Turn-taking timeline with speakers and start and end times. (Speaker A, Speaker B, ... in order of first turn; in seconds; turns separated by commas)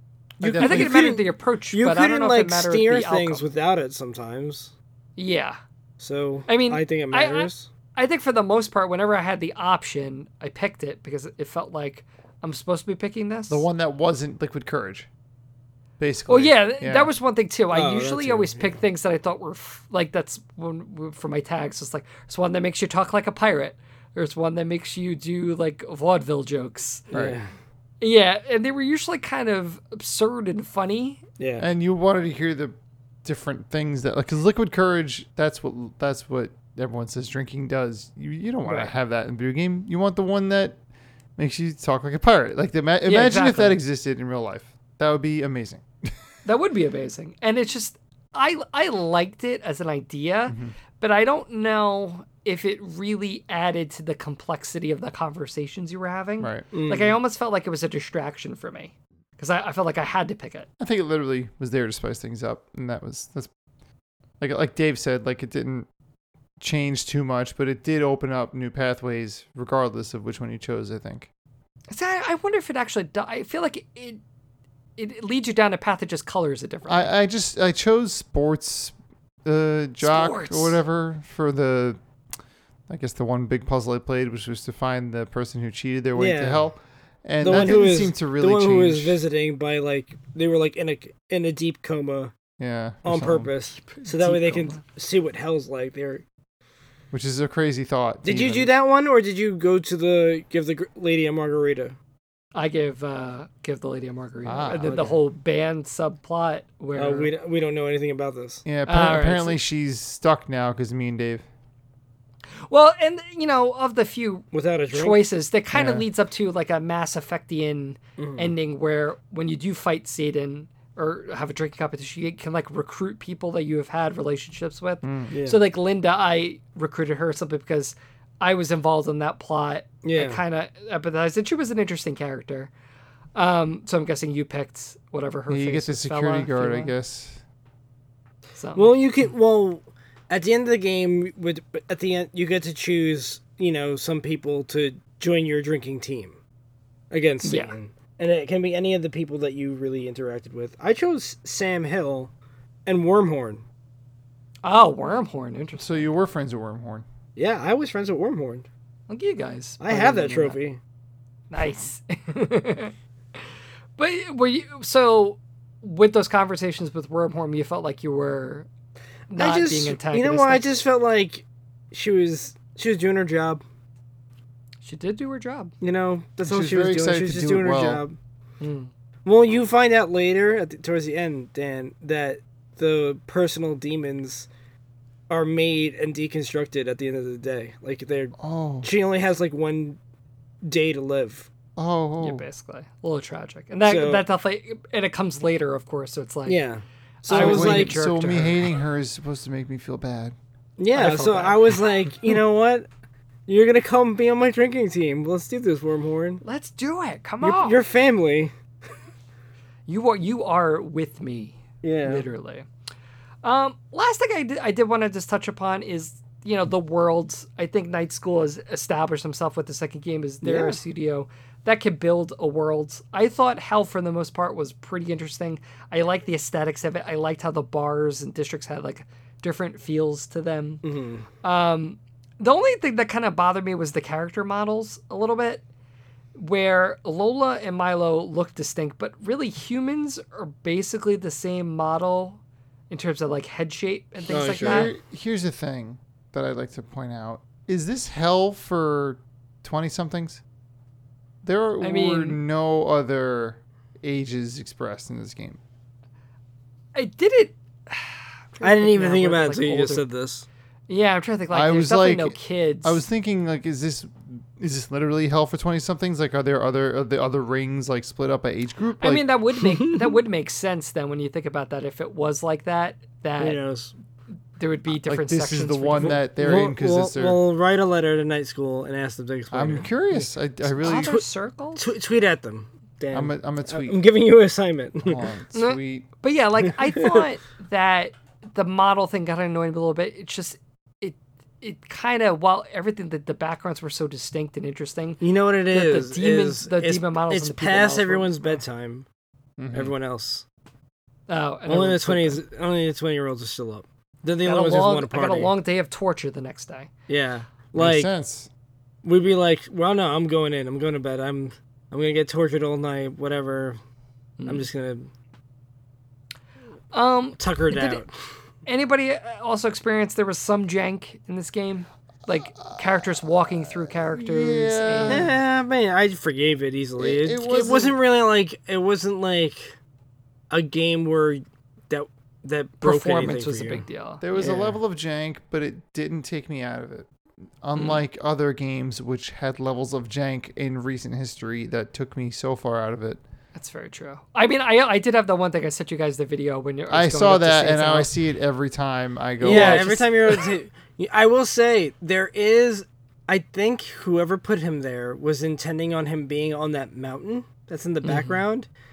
Speaker A: 0.4-4.7, Speaker B: 0.4-1.0, Speaker C: 0.6-3.4, Speaker C: 5.2-5.6, Speaker A: 6.0-7.7, Speaker C: 6.5-13.7, Speaker B: 13.5-15.1, Speaker B: 16.0-17.1, Speaker C: 16.3-27.1, Speaker A: 17.7-18.8, Speaker B: 27.1-27.4, Speaker A: 27.1-27.5, Speaker C: 28.0-31.2, Speaker A: 31.4-31.7, Speaker B: 31.6-40.8, Speaker C: 38.6-38.9, Speaker B: 41.4-46.2, Speaker C: 43.0-43.8, Speaker C: 46.5-60.7, Speaker B: 50.5-50.7, Speaker B: 56.4-56.7, Speaker A: 56.7-57.2, Speaker B: 60.8-63.5, Speaker B: 64.4-65.9, Speaker B: 66.6-71.3, Speaker C: 71.9-74.2, Speaker C: 75.0-77.1, Speaker B: 76.9-82.0, Speaker C: 80.0-80.8, Speaker B: 82.9-89.2, Speaker A: 86.2-86.7, Speaker A: 87.4-92.3, Speaker B: 92.6-93.5, Speaker A: 93.0-96.2, Speaker C: 93.9-94.8, Speaker B: 97.1-98.7, Speaker A: 98.2-102.0, Speaker C: 102.5-107.3, Speaker B: 104.5-105.1, Speaker A: 104.8-105.2, Speaker A: 107.0-108.7, Speaker B: 108.7-111.5, Speaker C: 108.9-109.6, Speaker C: 112.7-132.7, Speaker A: 114.5-115.2, Speaker B: 115.7-116.0, Speaker A: 118.2-118.5, Speaker B: 125.0-125.3, Speaker A: 125.3-125.6, Speaker A: 130.0-130.4, Speaker C: 133.3-136.9, Speaker B: 135.5-137.4, Speaker C: 138.6-138.9, Speaker A: 138.8-146.4, Speaker A: 147.1-152.3, Speaker C: 147.4-147.8, Speaker A: 152.9-153.6, Speaker C: 154.6-156.1, Speaker B: 155.8-157.1, Speaker A: 157.4-158.7, Speaker C: 159.1-160.6, Speaker A: 159.8-160.8, Speaker C: 161.5-162.9, Speaker C: 164.0-168.7, Speaker C: 169.3-170.7, Speaker A: 169.3-173.6, Speaker C: 174.8-175.7, Speaker A: 175.8-178.2, Speaker B: 176.4-178.0, Speaker C: 178.6-178.9, Speaker A: 179.2-184.5, Speaker A: 185.3-190.0, Speaker B: 188.4-188.9, Speaker A: 190.6-191.5, Speaker B: 191.8-192.5, Speaker C: 192.2-196.6, Speaker A: 193.8-194.2, Speaker A: 196.5-198.0, Speaker C: 197.2-198.6, Speaker B: 197.3-200.3, Speaker A: 200.8-202.9, Speaker C: 200.9-201.7, Speaker A: 203.5-206.4, Speaker C: 206.4-207.8, Speaker A: 207.4-208.5, Speaker C: 209.9-212.7, Speaker A: 211.8-212.3, Speaker C: 213.4-230.8, Speaker A: 220.4-220.8, Speaker A: 230.8-231.3, Speaker C: 231.4-235.6, Speaker C: 236.4-244.9, Speaker A: 244.3-244.9, Speaker B: 244.6-250.4, Speaker B: 251.4-255.6, Speaker C: 251.8-252.4, Speaker C: 256.9-260.0, Speaker A: 258.6-260.5, Speaker C: 260.9-263.0, Speaker B: 261.5-269.2, Speaker C: 269.0-273.6, Speaker A: 269.6-270.2, Speaker A: 273.4-273.9, Speaker C: 274.6-276.2, Speaker B: 274.9-277.4, Speaker A: 276.0-281.2, Speaker B: 279.5-281.2, Speaker C: 280.8-281.9, Speaker A: 281.8-285.3, Speaker B: 283.1-284.0, Speaker B: 285.0-286.1, Speaker C: 285.6-298.5, Speaker A: 286.7-287.2, Speaker A: 295.2-299.1, Speaker B: 299.6-299.9, Speaker A: 299.7-300.4, Speaker C: 301.3-302.4, Speaker A: 301.7-305.5, Speaker C: 304.4-306.9, Speaker A: 307.1-308.1, Speaker B: 307.8-308.5, Speaker A: 309.0-313.8, Speaker C: 314.4-314.7, Speaker A: 314.5-315.1, Speaker C: 316.9-318.0, Speaker A: 317.4-318.1, Speaker C: 318.7-325.3, Speaker B: 322.3-325.4, Speaker A: 325.1-329.8, Speaker B: 327.0-328.0, Speaker A: 330.5-334.8, Speaker C: 332.8-334.3, Speaker B: 334.2-337.1, Speaker B: 337.6-343.2, Speaker C: 337.8-338.0, Speaker C: 343.6-348.1, Speaker B: 346.9-349.9, Speaker A: 349.4-358.7, Speaker C: 349.4-350.5, Speaker C: 358.0-358.4